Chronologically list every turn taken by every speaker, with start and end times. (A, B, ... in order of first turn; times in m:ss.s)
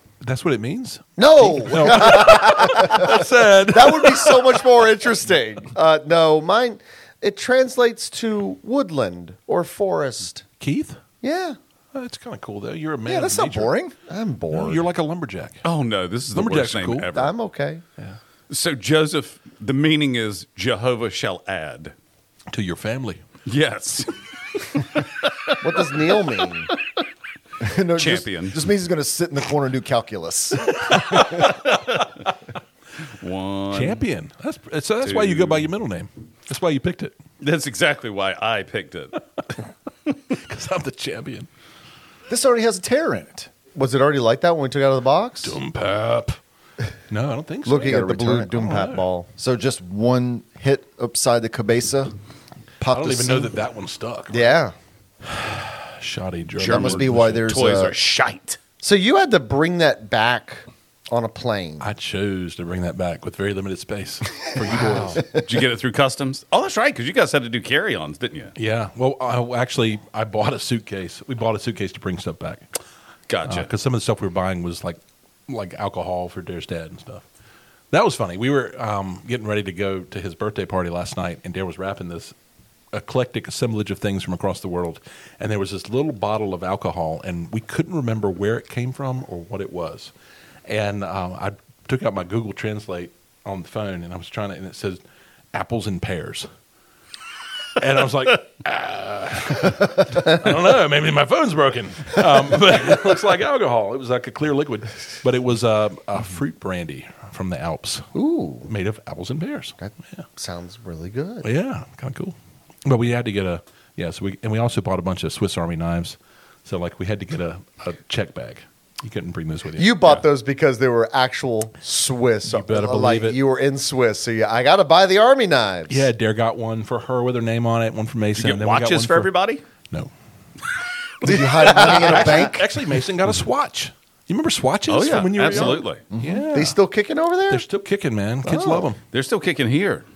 0:00.2-0:04.6 A
0:01.2-0:10.4 B
0:10.6-0:11.0 A
0:11.2-0:11.6 B
0:11.9-0:13.7 A
0:13.0-0:14.0 C
0:14.0-0:14.8 B
0:14.5-0:15.6 A
0:15.6-0:17.3 D
0:16.3-0:17.1 A
0:17.1-0:17.8 B
0:18.5-0:21.9 D
0:22.5-0:23.2 A
0:23.4-0:25.6 D
0:25.6-0:26.7 B
0:27.6-0:31.4 C
0:28.0-0:28.6 D
0:30.8-0:31.7 A
0:31.4-0:32.0 D
0:33.2-0:34.0 D
0:33.7-0:37.1 A
0:35.0-0:35.7 D
0:37.4-0:39.2 D
0:40.3-0:41.5 A
0:42.3-0:43.5 C
0:43.7-0:45.6 B
0:45.4-0:46.4 A
0:47.1-0:48.0 A
0:47.6-0:49.3 B
0:47.8-0:48.7 C
0:48.5-0:49.1 A
0:49.4-0:52.1 C
0:52.8-0:53.6 C
0:52.9-0:54.4 A
0:54.3-0:54.7 B
0:55.3-0:57.6 A
0:56.6-0:58.6 D
0:56.7-0:57.9 B
0:57.0-0:57.8 C
0:58.8-1:01.9 B
1:01.8-1:05.2 A
1:04.7-1:05.4 C
1:04.9-1:08.5 D
1:08.5-1:12.6 A
1:13.3-1:13.7 D
1:13.4-1:17.2 A
1:17.9-1:22.3 A
1:22.9-1:30.1 A
1:30.7-1:35.0 A
1:35.5-1:36.5 A
1:37.8-1:48.1 A
1:48.1-1:48.7 B
1:48.7-1:50.2 A
1:49.8-1:51.5 B
1:51.4-2:00.2 A
1:59.8-2:06.1 B
2:02.4-2:03.4 A
2:05.9-2:09.3 A
2:08.4-2:09.6 D
2:11.2-2:12.4 D
2:11.2-2:12.6 C
2:11.3-2:12.6 B
2:11.9-2:16.8 A
2:14.9-2:16.0 D
2:15.4-2:15.7 B
2:16.1-2:16.5 C
2:16.5-2:17.6 B
2:17.5-2:19.0 A
2:18.4-2:18.9 B
2:19.1-2:20.0 D